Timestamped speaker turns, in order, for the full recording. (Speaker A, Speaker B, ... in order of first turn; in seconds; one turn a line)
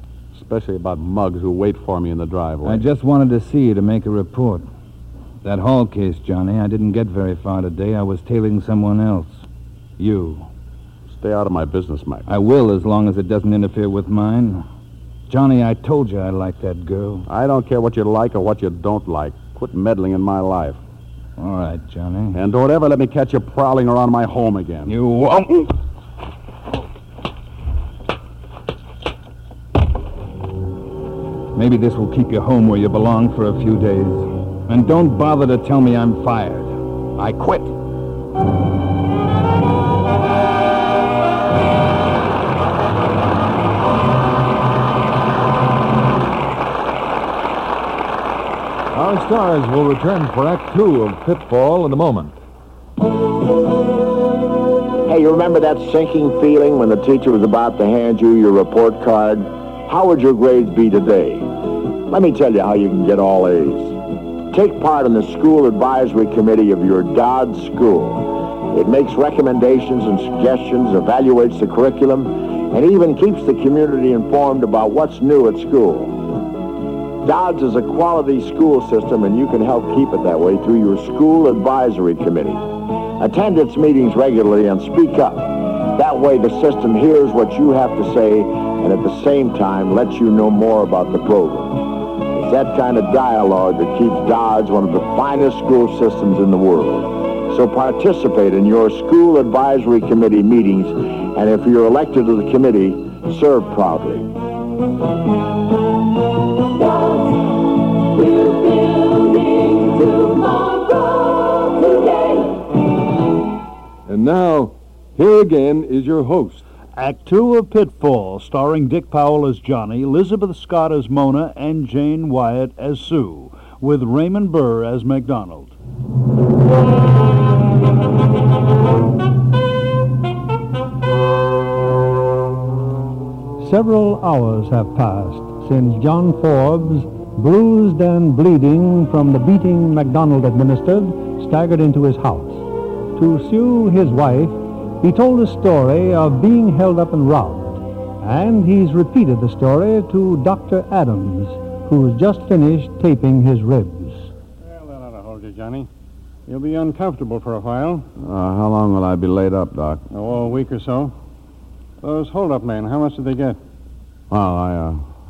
Speaker A: 0.3-2.9
Speaker B: 2.6-4.7
Speaker B: 5.4-9.4
Speaker B: 10.0-10.5
Speaker A: 11.1-12.3
Speaker B: 12.3-14.7
Speaker B: 15.3-17.3
Speaker A: 17.3-20.8
Speaker B: 21.4-22.4
Speaker A: 22.3-24.9
Speaker B: 24.9-25.7
Speaker B: 31.5-37.6
Speaker C: 48.9-52.4
Speaker D: 55.1-61.5
Speaker D: 62.1-64.0
Speaker D: 64.5-76.3
Speaker D: 77.2-104.3
Speaker C: 114.1-116.6
Speaker E: 117.0-125.8
Speaker F: 133.6-154.3
Speaker G: 154.6-155.9
Speaker G: 156.5-158.1
Speaker A: 158.2-160.1
Speaker G: 160.1-161.1
Speaker G: 162.0-163.6
Speaker A: 164.3-165.1